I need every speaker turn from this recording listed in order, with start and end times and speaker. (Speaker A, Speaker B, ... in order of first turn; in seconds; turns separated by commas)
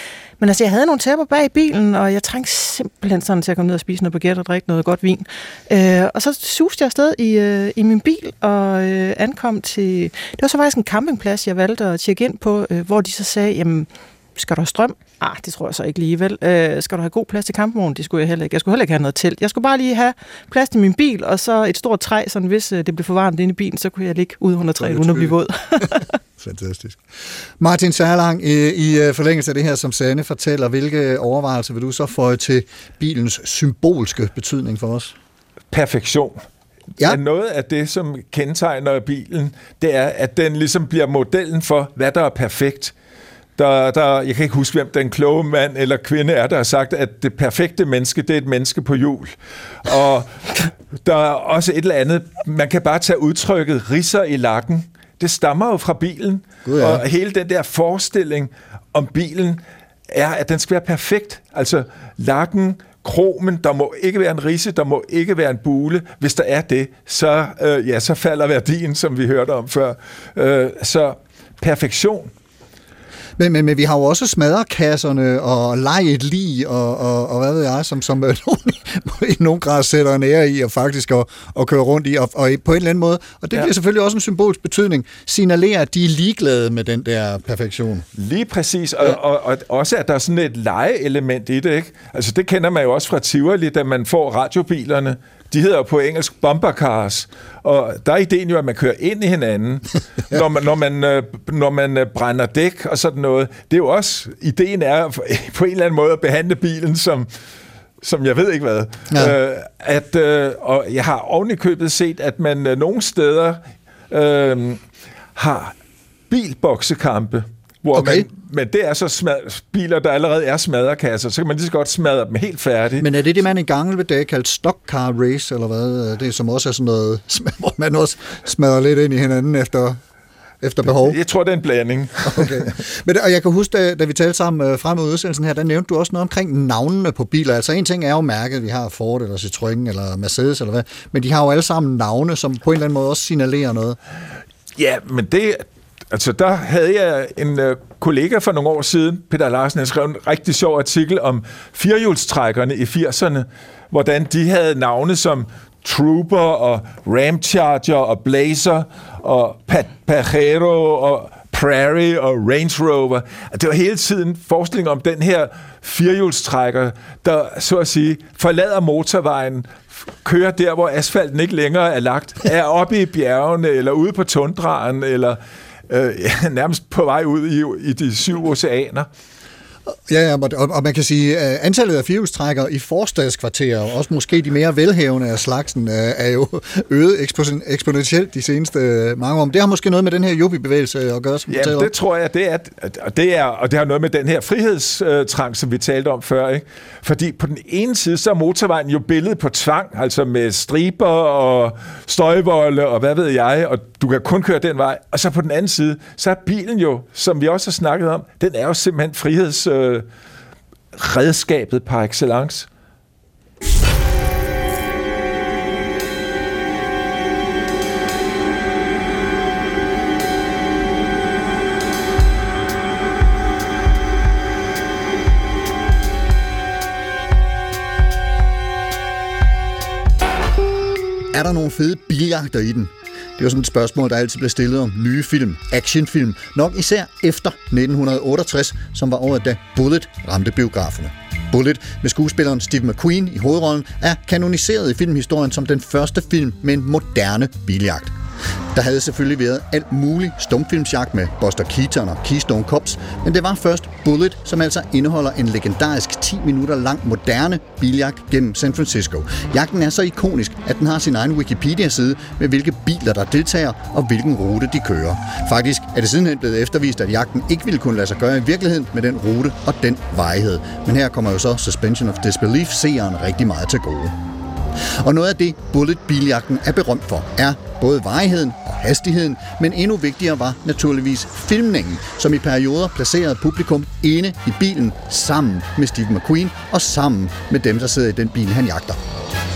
Speaker A: 0.4-26.1, Speaker B: 24.8-25.3, Speaker B: 26.4-27.0, Speaker B: 27.6-35.1, Speaker C: 35.7-36.4, Speaker C: 37.0-42.9, Speaker C: 43.6-72.3, Speaker B: 56.6-57.0, Speaker B: 73.4-88.0, Speaker C: 88.2-107.3, Speaker C: 108.0-114.8, Speaker C: 115.3-115.7, Speaker C: 116.3-123.0, Speaker B: 117.9-118.3, Speaker B: 123.0-130.0, Speaker B: 130.6-131.2, Speaker C: 131.0-132.7, Speaker B: 132.2-144.0, Speaker C: 144.8-179.1, Speaker B: 180.1-191.9, Speaker C: 191.5-210.1, Speaker C: 210.9-212.7, Speaker B: 231.3-248.1, Speaker B: 248.7-274.1, Speaker B: 275.0-289.0